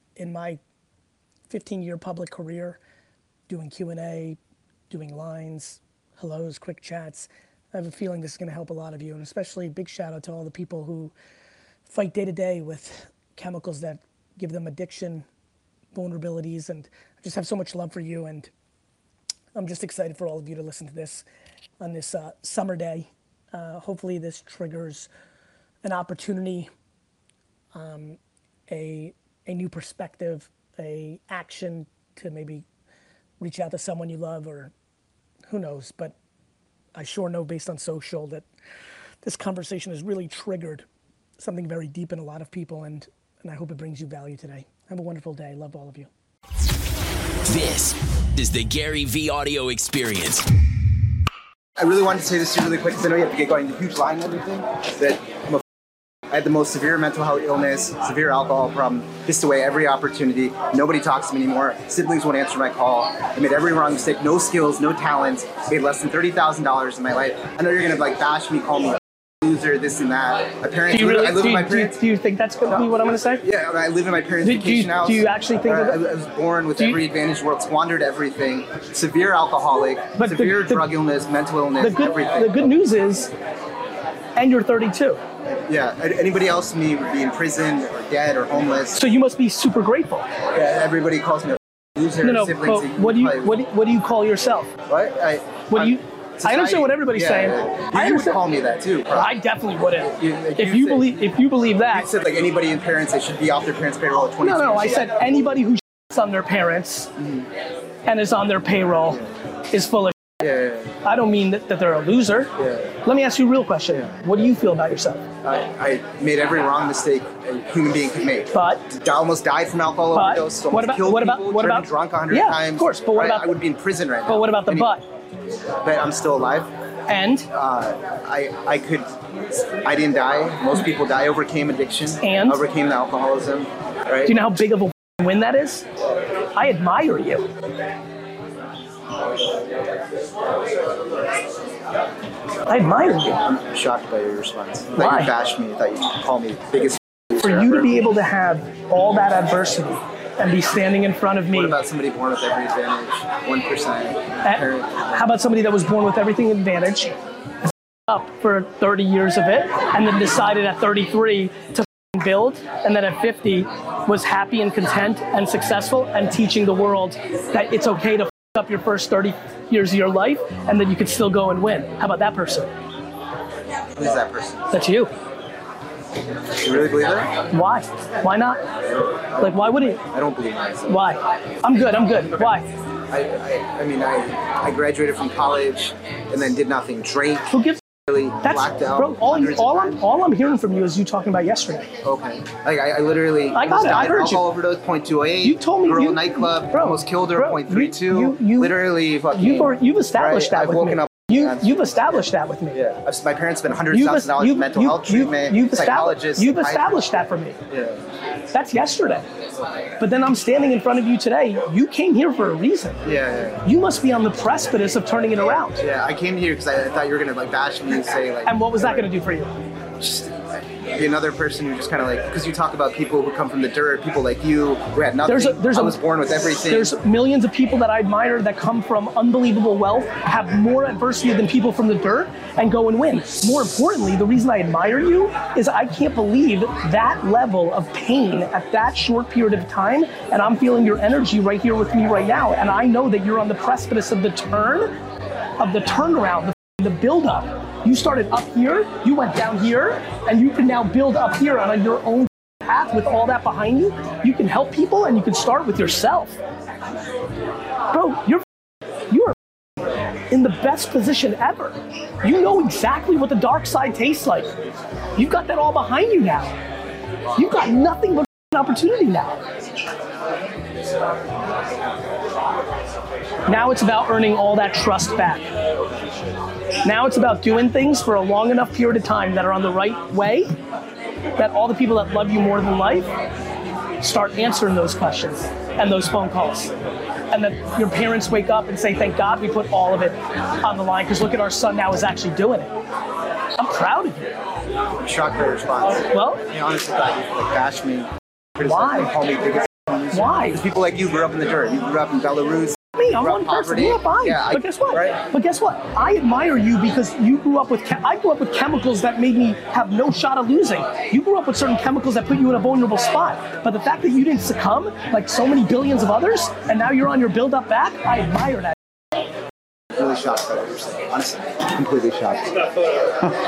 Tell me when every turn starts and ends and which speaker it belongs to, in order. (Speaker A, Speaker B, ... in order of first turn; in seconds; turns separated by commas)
Speaker A: 0.2-0.6, Speaker A: 1.5-2.8, Speaker A: 3.5-4.4, Speaker A: 4.9-11.1, Speaker A: 11.9-15.2, Speaker A: 15.9-18.5, Speaker A: 19.6-21.2, Speaker A: 21.8-25.1, Speaker A: 25.8-26.7, Speaker A: 27.7-32.6, Speaker A: 33.4-34.7, Speaker A: 35.5-36.1, Speaker A: 37.0-38.5, Speaker A: 39.2-40.9, Speaker A: 41.4-46.1, Speaker B: 47.5-50.5, Speaker C: 51.8-55.6, Speaker C: 56.3-72.0, Speaker A: 70.9-73.5, Speaker C: 73.4-82.8, Speaker A: 74.4-76.0, Speaker A: 76.8-77.0, Speaker A: 80.2-80.9, Speaker A: 81.8-83.3, Speaker A: 84.4-85.2, Speaker C: 85.5-89.0, Speaker A: 88.9-90.3, Speaker C: 90.5-93.6, Speaker A: 92.2-94.7, Speaker C: 94.9-99.3, Speaker A: 95.7-98.4, Speaker A: 99.1-102.1, Speaker C: 100.0-101.2, Speaker C: 101.9-105.1, Speaker A: 104.4-107.2, Speaker C: 107.2-107.5, Speaker A: 108.1-110.2, Speaker C: 110.4-111.0, Speaker A: 111.0-112.5, Speaker C: 112.6-113.0, Speaker A: 113.0-115.3, Speaker C: 115.4-125.0, Speaker A: 118.5-118.9, Speaker A: 120.1-123.6, Speaker A: 124.3-125.0, Speaker C: 125.8-126.7, Speaker A: 127.1-127.5, Speaker C: 127.5-129.1, Speaker C: 129.8-134.3, Speaker A: 132.2-132.6, Speaker A: 134.3-135.8, Speaker A: 136.5-137.5, Speaker A: 142.7-143.4, Speaker C: 143.2-147.9, Speaker A: 145.0-145.3, Speaker A: 147.4-151.8, Speaker C: 151.5-155.3, Speaker A: 154.4-157.2, Speaker A: 158.1-172.7, Speaker C: 174.0-174.7, Speaker A: 174.7-175.1, Speaker C: 176.5-177.3, Speaker A: 177.5-178.7, Speaker C: 179.1-181.1, Speaker A: 179.4-180.0, Speaker A: 180.9-182.7, Speaker C: 183.1-187.5, Speaker A: 187.5-187.8, Speaker C: 188.1-190.2, Speaker A: 188.4-191.9, Speaker C: 192.0-202.0, Speaker A: 193.5-194.4, Speaker A: 195.4-198.8, Speaker A: 199.3-202.8, Speaker C: 202.7-207.1, Speaker A: 203.9-207.6, Speaker C: 207.7-208.0, Speaker A: 208.5-209.3, Speaker A: 210.0-213.0, Speaker C: 213.1-213.6, Speaker A: 213.6-215.8, Speaker C: 215.4-219.1, Speaker A: 218.5-219.5, Speaker C: 220.0-220.3, Speaker C: 220.9-226.9, Speaker A: 225.2-226.0, Speaker A: 226.6-244.9, Speaker A: 245.6-256.4, Speaker A: 257.9-258.4, Speaker A: 259.1-259.4, Speaker A: 260.3-264.5, Speaker A: 265.2-266.5, Speaker A: 267.4-269.4, Speaker A: 273.5-275.5, Speaker A: 276.8-280.5, Speaker A: 281.4-283.1, Speaker A: 284.0-286.7, Speaker A: 287.3-292.7, Speaker A: 293.6-294.4, Speaker C: 295.0-305.2, Speaker A: 296.1-296.4, Speaker A: 298.6-299.2, Speaker A: 300.1-300.6, Speaker A: 303.0-318.8, Speaker C: 319.9-322.7